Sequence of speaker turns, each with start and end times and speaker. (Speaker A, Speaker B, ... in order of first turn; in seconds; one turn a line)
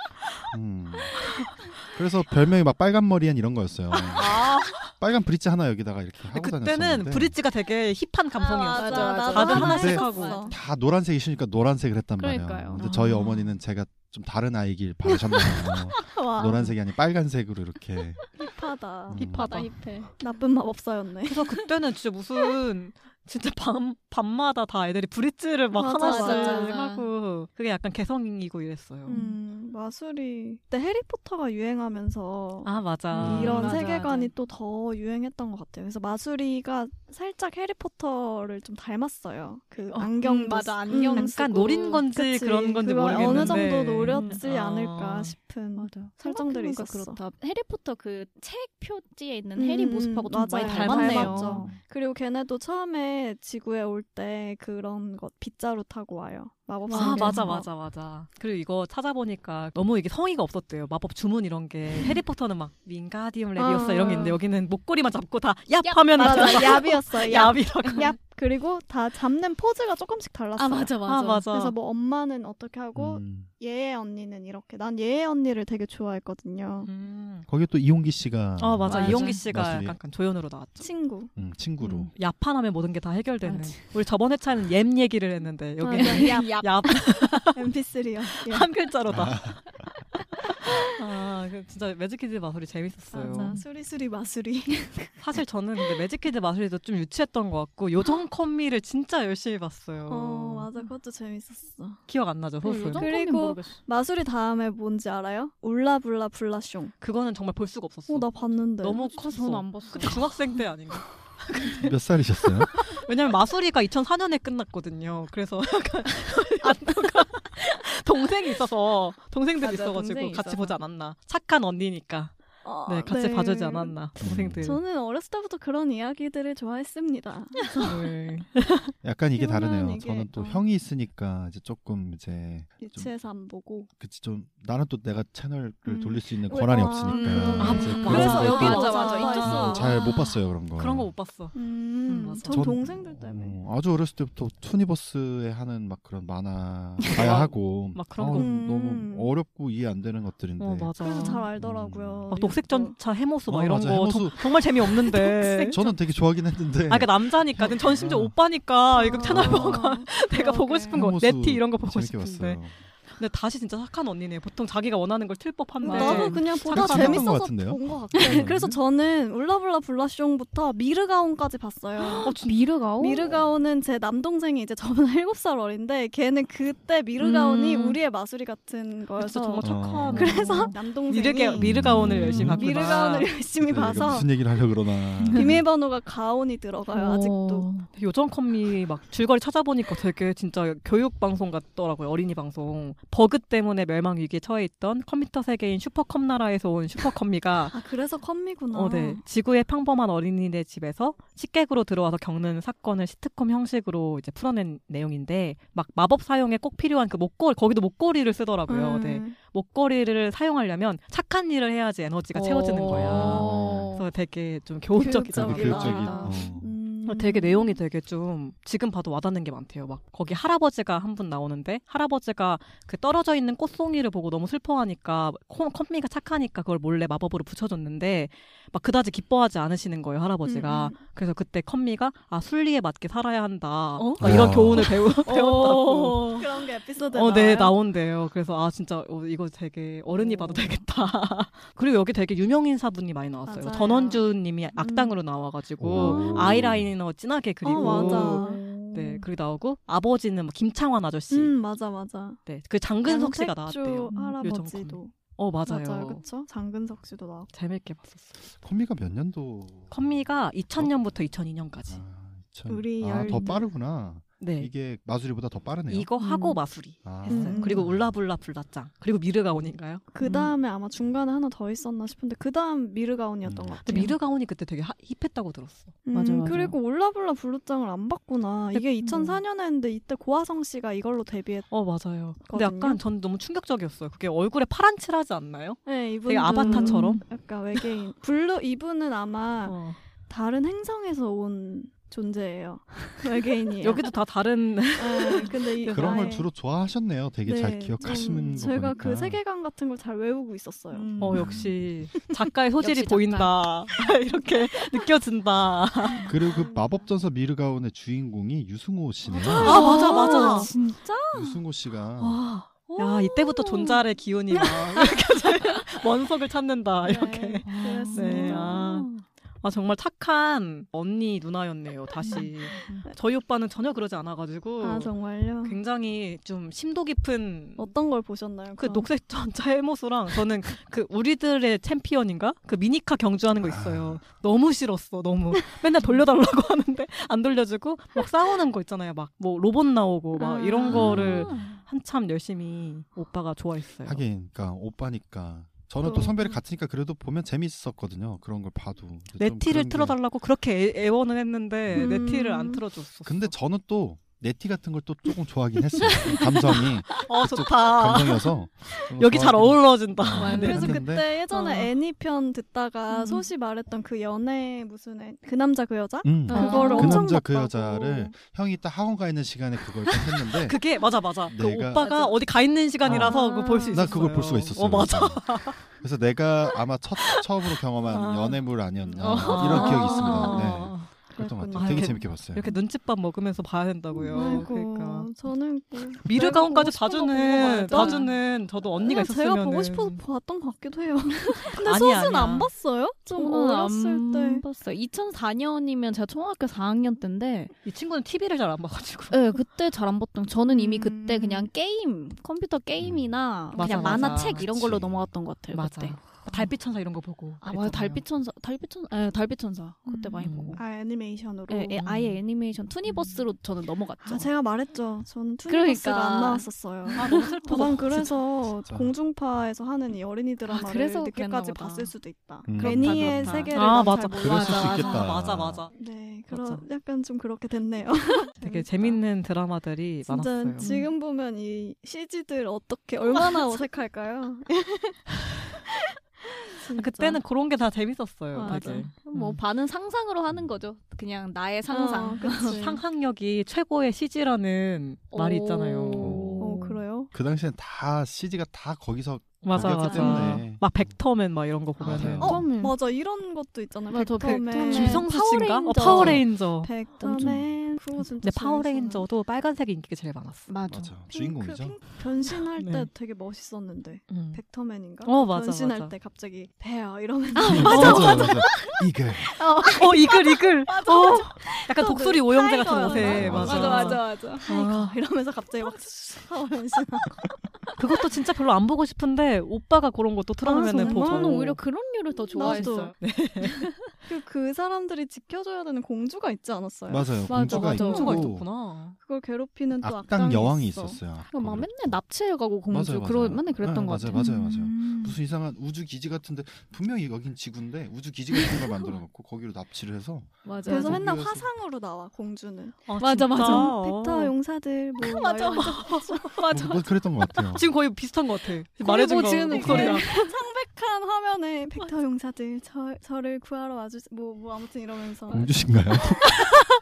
Speaker A: 0.5-1.3
Speaker A: 1.8-7.3
Speaker B: 4.1-4.9
Speaker B: 6.3-10.5
Speaker C: 8.4-10.6
Speaker D: 8.6-10.5
Speaker A: 9.4-18.2
Speaker D: 12.2-12.9
Speaker B: 12.8-13.5
Speaker C: 16.1-16.7
Speaker C: 18.4-19.4
Speaker A: 19.1-19.8
Speaker D: 19.2-20.1
Speaker B: 19.4-19.6
Speaker C: 20.2-21.5
Speaker B: 21.2-29.2
Speaker C: 25.7-26.8
Speaker D: 26.0-27.1
Speaker C: 29.1-47.2
Speaker D: 29.1-29.4
Speaker B: 32.6-33.9
Speaker A: 33.2-33.5
Speaker D: 33.2-34.3
Speaker D: 39.9-42.0
Speaker B: 41.1-45.4
Speaker D: 43.1-44.4
Speaker D: 45.8-51.7
Speaker C: 49.5-57.6
Speaker B: 50.6-51.6
Speaker D: 56.9-57.5
Speaker B: 56.9-68.1
Speaker C: 63.6-64.4
Speaker D: 65.8-67.0
Speaker C: 66.1-71.0
Speaker D: 70.5-71.5
Speaker B: 71.0-71.7
Speaker C: 71.5-76.9
Speaker A: 72.9-73.5
Speaker B: 76.8-77.5
Speaker A: 77.5-80.0
Speaker B: 78.6-80.9
Speaker D: 78.8-79.4
Speaker C: 80.8-81.3
Speaker A: 81.3-82.1
Speaker B: 81.8-87.6
Speaker D: 83.4-83.8
Speaker C: 85.8-86.5
Speaker D: 85.9-87.5
Speaker C: 87.5-88.7
Speaker B: 88.5-89.6
Speaker A: 89.1-89.8
Speaker B: 90.8-93.5
Speaker C: 93.1-95.2
Speaker D: 93.3-93.6
Speaker B: 95.2-100.7
Speaker C: 100.1-102.0
Speaker B: 102.1-103.1
Speaker D: 102.6-103.8
Speaker C: 103.0-106.9
Speaker B: 107.0-124.8
Speaker C: 108.1-109.0
Speaker D: 109.0-110.3
Speaker A: 111.8-112.7
Speaker D: 119.6-120.8
Speaker C: 122.6-123.9
Speaker A: 124.2-124.8
Speaker C: 124.6-127.8
Speaker D: 127.6-127.9
Speaker B: 127.8-128.9
Speaker A: 129.0-133.1
Speaker C: 129.3-130.6
Speaker C: 132.8-133.9
Speaker A: 134.0-141.1
Speaker C: 135.8-140.0
Speaker D: 137.1-140.3
Speaker B: 137.6-140.0
Speaker B: 140.7-141.6
Speaker C: 141.5-143.6
Speaker B: 142.1-142.7
Speaker A: 142.5-152.3
Speaker B: 147.1-148.5
Speaker C: 148.3-149.3
Speaker B: 150.6-151.5
Speaker C: 151.0-152.9
Speaker B: 152.3-155.8
Speaker A: 153.5-155.1
Speaker D: 155.2-155.9
Speaker A: 155.7-158.3
Speaker B: 156.9-162.6
Speaker C: 158.9-161.0
Speaker A: 159.2-159.8
Speaker A: 160.9-162.8
Speaker B: 163.2-167.4
Speaker D: 165.8-166.4
Speaker C: 165.8-172.3
Speaker A: 166.6-168.8
Speaker B: 172.0-172.7
Speaker D: 172.2-173.3
Speaker C: 173.0-184.3
Speaker D: 177.2-178.0
Speaker B: 179.2-183.3
Speaker A: 179.6-180.4
Speaker D: 180.1-180.7
Speaker A: 181.6-183.0
Speaker D: 181.9-182.6
Speaker A: 183.6-185.6
Speaker D: 185.2-185.6
Speaker C: 185.3-187.7
Speaker D: 186.9-187.9
Speaker B: 187.9-197.8
Speaker C: 197.7-199.2
Speaker B: 198.7-216.4
Speaker C: 208.7-209.3
Speaker D: 212.3-214.1
Speaker A: 212.9-213.9
Speaker C: 214.9-217.8
Speaker A: 215.3-216.8
Speaker D: 215.7-216.3
Speaker B: 217.1-251.5
Speaker C: 230.4-231.0
Speaker D: 234.0-236.4
Speaker A: 234.2-235.0
Speaker C: 236.3-237.8
Speaker D: 240.2-240.7
Speaker C: 243.4-244.2
Speaker D: 244.8-245.1
Speaker A: 245.8-246.9
Speaker C: 246.0-246.6
Speaker C: 247.6-248.7
Speaker D: 247.6-249.2
Speaker C: 251.3-252.4
Speaker B: 252.4-256.2
Speaker C: 253.0-255.1
Speaker D: 254.1-254.4
Speaker C: 255.7-257.5
Speaker B: 257.5-258.4
Speaker A: 258.4-260.2
Speaker B: 259.9-262.0
Speaker A: 261.9-266.1
Speaker C: 262.7-263.7
Speaker B: 264.4-264.7
Speaker B: 265.9-270.4
Speaker D: 266.2-266.6
Speaker A: 267.0-268.1
Speaker C: 267.2-267.8
Speaker C: 270.1-274.1
Speaker D: 270.2-270.5
Speaker A: 273.4-273.8
Speaker B: 273.8-276.0
Speaker D: 273.9-274.1
Speaker C: 276.1-281.7
Speaker D: 276.1-276.7
Speaker B: 278.7-279.3
Speaker D: 279.0-279.4
Speaker B: 281.7-287.2
Speaker C: 282.5-283.0
Speaker C: 285.9-294.1
Speaker D: 286.4-287.2
Speaker B: 289.6-290.0
Speaker B: 293.8-296.3
Speaker C: 295.0-296.5
Speaker A: 295.9-299.4
Speaker C: 297.4-302.2
Speaker D: 300.9-301.7
Speaker B: 301.2-306.3
Speaker D: 302.8-303.6
Speaker A: 306.2-310.0
Speaker C: 306.4-306.9
Speaker D: 309.3-311.6
Speaker C: 309.4-310.8
Speaker B: 309.6-310.7
Speaker A: 311.3-312.4
Speaker B: 312.2-319.1
Speaker D: 312.9-315.9
Speaker C: 317.0-318.8
Speaker D: 317.6-319.2
Speaker B: 319.6-327.9
Speaker C: 322.2-323.1
Speaker D: 322.2-323.1
Speaker C: 324.8-325.8
Speaker C: 327.8-329.1
Speaker B: 328.8-344.2
Speaker A: 333.6-334.2
Speaker C: 340.4-341.2
Speaker A: 340.9-341.5
Speaker D: 341.0-341.8
Speaker A: 344.0-350.2
Speaker C: 346.0-346.6
Speaker B: 349.4-353.5
Speaker A: 351.9-352.2
Speaker C: 351.9-352.8
Speaker A: 353.2-361.3
Speaker C: 355.9-356.3
Speaker B: 357.2-358.5
Speaker B: 359.0-361.9
Speaker D: 360.3-361.0
Speaker C: 360.4-368.3
Speaker D: 361.5-361.8
Speaker D: 363.1-363.5
Speaker A: 366.2-370.8
Speaker D: 366.5-367.4
Speaker B: 366.5-367.3
Speaker B: 370.6-375.9
Speaker A: 371.4-372.1
Speaker C: 372.0-372.4
Speaker A: 373.0-382.7
Speaker C: 373.1-374.1
Speaker B: 378.1-378.6
Speaker D: 379.2-380.6
Speaker B: 379.2-381.1
Speaker C: 379.6-380.7
Speaker C: 381.3-382.2
Speaker B: 381.7-385.3
Speaker C: 384.2-388.3
Speaker B: 386.2-390.2
Speaker D: 387.6-388.3
Speaker C: 389.0-394.6
Speaker B: 391.7-392.7
Speaker D: 393.3-397.7
Speaker B: 397.8-399.6
Speaker D: 399.3-406.7
Speaker C: 400.7-401.7
Speaker A: 403.0-403.4
Speaker C: 403.7-404.4
Speaker B: 403.7-404.7
Speaker A: 404.4-405.3
Speaker B: 405.7-408.2
Speaker D: 407.6-410.8
Speaker C: 410.1-412.0
Speaker B: 410.4-410.8
Speaker D: 411.7-414.5
Speaker B: 412.0-412.4
Speaker B: 413.1-413.4
Speaker C: 414.2-425.1
Speaker D: 415.7-418.2
Speaker B: 417.2-418.4
Speaker A: 418.8-419.1
Speaker D: 420.7-422.1
Speaker A: 422.6-423.8
Speaker D: 422.7-425.3
Speaker B: 423.7-425.9
Speaker A: 424.4-425.9
Speaker C: 425.9-429.2
Speaker B: 426.5-426.8
Speaker B: 428.6-430.9
Speaker C: 430.2-435.9
Speaker D: 430.8-431.1
Speaker C: 436.4-437.4
Speaker B: 436.9-439.6
Speaker C: 438.5-439.1
Speaker D: 438.6-442.8
Speaker C: 441.9-443.0
Speaker B: 442.6-446.6
Speaker D: 445.3-446.9
Speaker A: 446.2-446.8
Speaker C: 446.6-447.3
Speaker A: 447.3-450.9
Speaker B: 449.6-452.6
Speaker C: 449.8-450.6
Speaker D: 450.1-450.5
Speaker A: 452.0-452.6
Speaker D: 452.0-452.9
Speaker C: 452.4-455.4
Speaker D: 454.1-456.4
Speaker B: 454.2-457.6
Speaker C: 455.9-459.2
Speaker A: 456.1-456.4
Speaker D: 457.2-457.6
Speaker B: 458.2-460.7
Speaker D: 460.7-461.2
Speaker A: 460.9-462.0
Speaker C: 461.3-468.6
Speaker B: 462.7-463.1
Speaker B: 464.3-464.6
Speaker B: 465.2-466.1
Speaker D: 467.5-472.1
Speaker A: 467.7-469.6
Speaker B: 467.8-468.6
Speaker B: 469.9-475.2
Speaker C: 471.3-477.6
Speaker D: 472.9-474.7
Speaker A: 473.1-474.2
Speaker B: 478.0-481.8
Speaker C: 480.6-481.7
Speaker D: 480.8-484.1
Speaker C: 482.5-483.1
Speaker B: 482.6-483.9
Speaker C: 484.2-488.5
Speaker A: 487.1-488.6
Speaker D: 487.5-488.5
Speaker B: 487.7-489.2
Speaker C: 489.2-491.2
Speaker A: 490.0-492.2
Speaker D: 491.4-495.3
Speaker A: 492.9-501.7
Speaker C: 494.4-494.8
Speaker D: 500.6-501.2
Speaker C: 500.9-506.6
Speaker B: 503.1-504.5
Speaker D: 503.2-503.9
Speaker D: 505.3-507.1
Speaker B: 505.3-506.5
Speaker A: 506.7-507.9
Speaker B: 507.7-510.3
Speaker D: 509.0-510.5
Speaker C: 509.6-515.7
Speaker A: 515.5-516.4
Speaker D: 516.4-516.8